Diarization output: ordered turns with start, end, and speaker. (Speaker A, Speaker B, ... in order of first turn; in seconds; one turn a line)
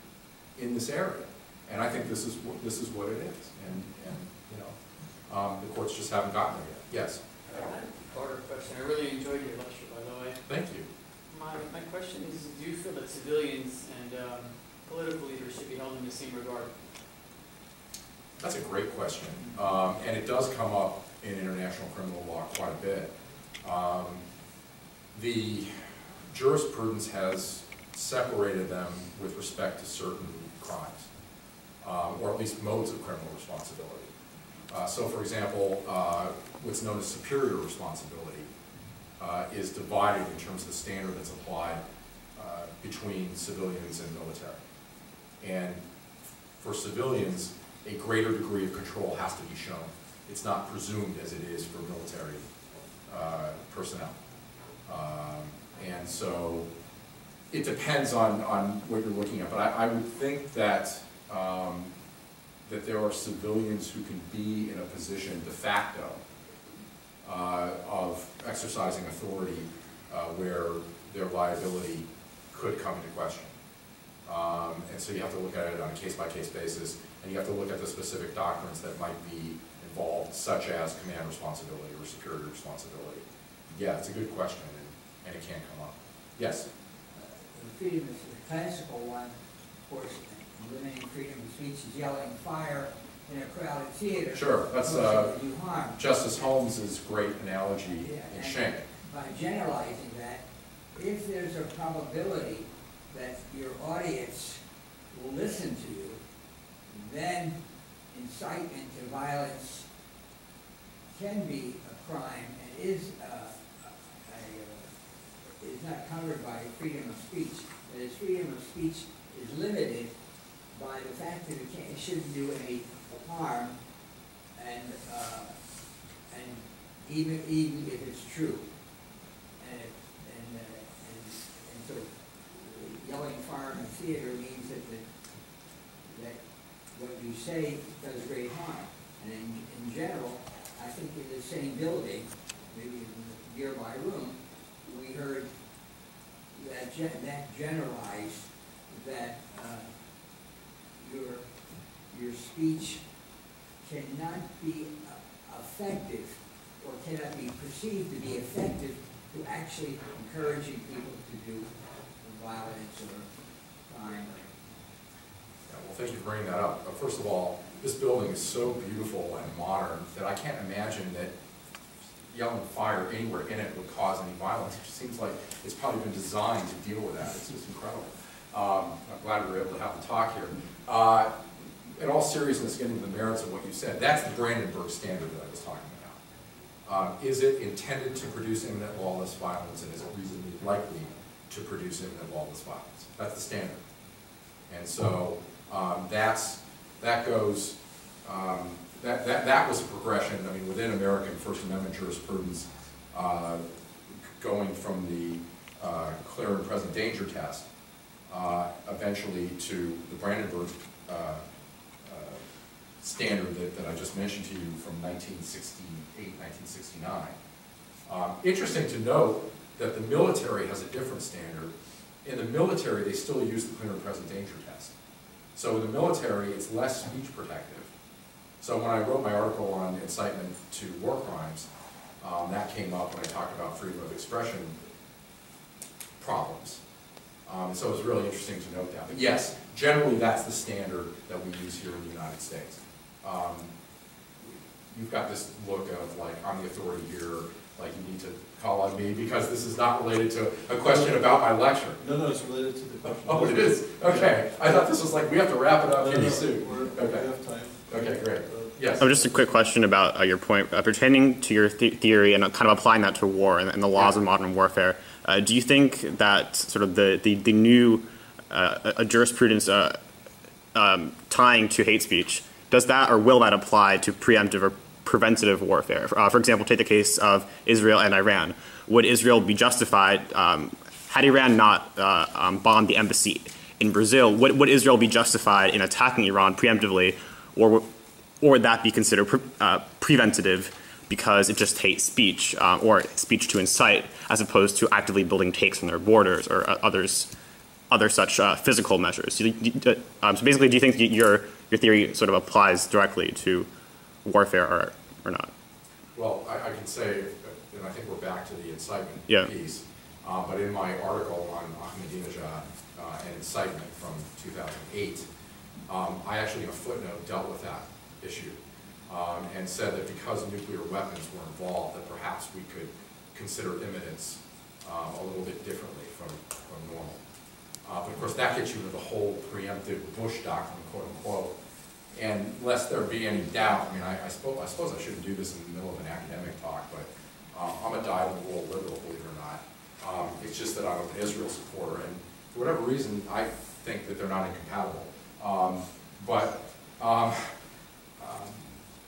Speaker A: 0.6-4.7
Speaker A: 5.3-7.2
Speaker B: 7.5-10.4
Speaker A: 10.5-10.9
Speaker B: 11.3-16.8
Speaker A: 18.4-24.2
Speaker A: 25.1-25.7
Speaker A: 26.3-31.1
Speaker A: 31.8-34.1
Speaker A: 34.7-38.5
Speaker A: 39.2-41.8
Speaker A: 42.4-44.6
Speaker A: 45.4-45.8
Speaker A: 46.6-52.4
Speaker A: 53.1-54.2
Speaker A: 54.9-56.7
Speaker A: 57.5-61.9
Speaker A: 62.6-66.2
Speaker A: 67.2-73.5
Speaker A: 74.2-86.7
Speaker C: 87.1-96.0
Speaker A: 94.3-95.3
Speaker A: 96.0-98.8
Speaker C: 97.9-106.2
Speaker C: 106.9-109.9
Speaker C: 111.1-114.9
Speaker C: 115.5-120.1
Speaker C: 120.7-123.8
Speaker C: 124.5-125.6
Speaker C: 126.3-128.6
Speaker C: 129.6-135.1
Speaker C: 136.1-145.5
Speaker C: 146.5-149.9
Speaker C: 151.0-153.0
Speaker C: 153.8-163.3
Speaker C: 163.8-164.5
Speaker A: 165.7-171.3
Speaker A: 172.2-181.3
Speaker A: 182.0-186.2
Speaker A: 186.8-193.8
Speaker A: 194.7-203.6
Speaker A: 204.4-207.6
Speaker A: 208.3-211.4
Speaker A: 212.0-212.4
Speaker A: 213.0-217.3
Speaker A: 218.1-224.9
Speaker A: 225.5-227.9
Speaker A: 228.6-231.7
Speaker A: 232.2-234.8
Speaker A: 236.2-236.8
Speaker A: 237.4-243.7
Speaker A: 244.4-252.0
Speaker D: 250.8-251.3
Speaker D: 252.0-254.7
Speaker A: 253.0-257.3
Speaker D: 255.9-259.6
Speaker A: 257.9-259.1
Speaker E: 259.0-270.0
Speaker E: 270.7-287.8
Speaker E: 288.4-297.3
Speaker E: 297.9-303.7
Speaker E: 304.2-305.5
Speaker A: 306.1-315.2
Speaker A: 315.9-327.2
Speaker A: 327.8-331.5
Speaker A: 332.1-347.5
Speaker A: 348.2-348.7